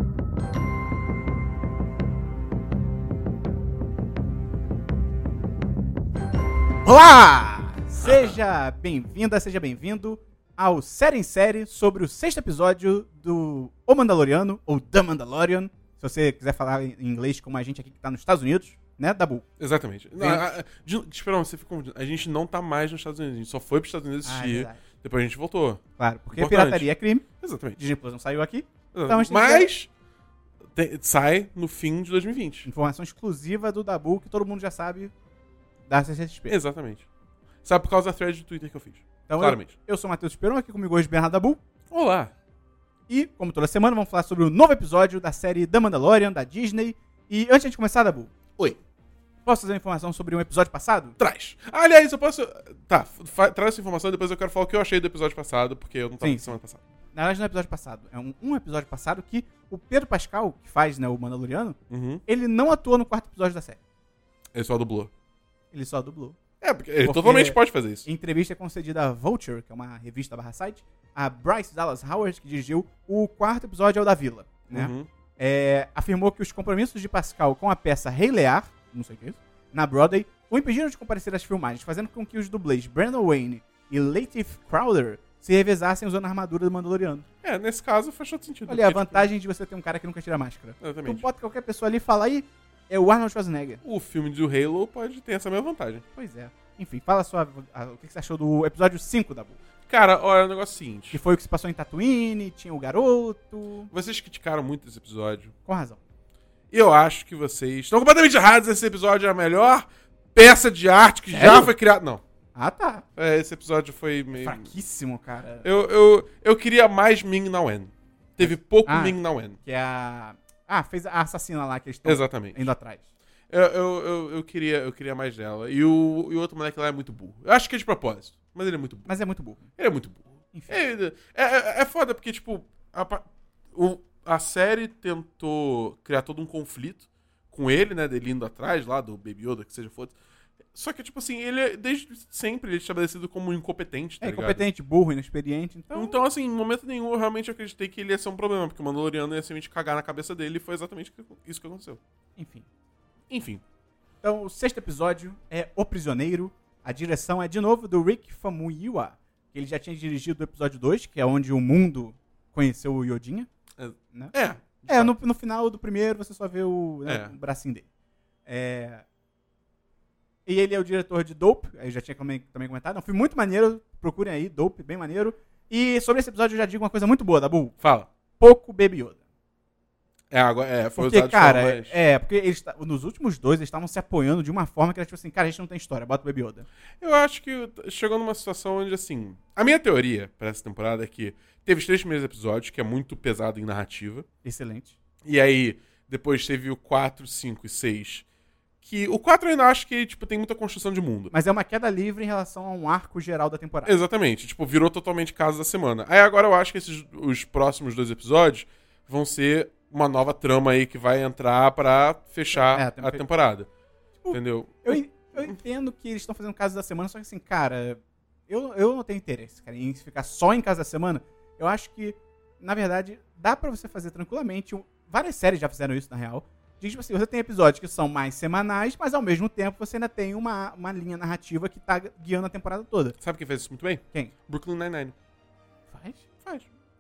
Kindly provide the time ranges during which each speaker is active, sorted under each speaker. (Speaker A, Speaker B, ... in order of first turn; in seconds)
Speaker A: 6.8-19.4, 20.2-20.5, 24.2-24.8, 26.0-29.7, 32.6-35.1, 35.9-36.5, 39.3-41.6, 43.1-48.3, 49.5-51.2, 56.2-56.6, 57.1-63.8, 65.7-66.4, 67.0-87.2, 88.7-93.8, 96.1-99.6, 101.1-103.9, 105.7-106.0, 111.3-111.7, 112.5-113.0, 114.3-115.7, 118.4-123.0, 129.1-129.7, 130.5-130.8, 144.2-146.2, 152.4-152.7, 154.2-163.5, 164.1-167.9, 168.4-169.0, 170.4-177.8, 178.4-179.2, 180.9-186.7, 194.4-194.9, 201.3-204.0, 212.5-213.2, 214.2-233.2, 235.9-236.2
Speaker B: 19.6-25.8, 26.3-26.9, 27.4-27.8, 28.9-29.9, 30.7-32.7, 36.5-37.0, 37.6-39.7, 41.9-42.3, 51.2-56.8, 61.9-62.2, 64.5-65.1, 66.6-68.1, 74.7-75.1, 87.4-89.3, 90.8-91.2, 93.8-96.0, 99.9-101.2, 103.9-105.5, 106.7-112.2, 113.2-114.7, 115.6-119.6, 122.0-122.7, 123.5-129.1, 129.8-140.2, 140.7-144.6, 145.9-152.0, 153.3-153.6, 163.8-165.1, 167.1-167.3, 177.8-178.1, 180.3-182.0, 187.0-194.2, 195.2-198.2, 198.8-201.3, 203.9-213.7, 214.3-215.0, 233.2-235.2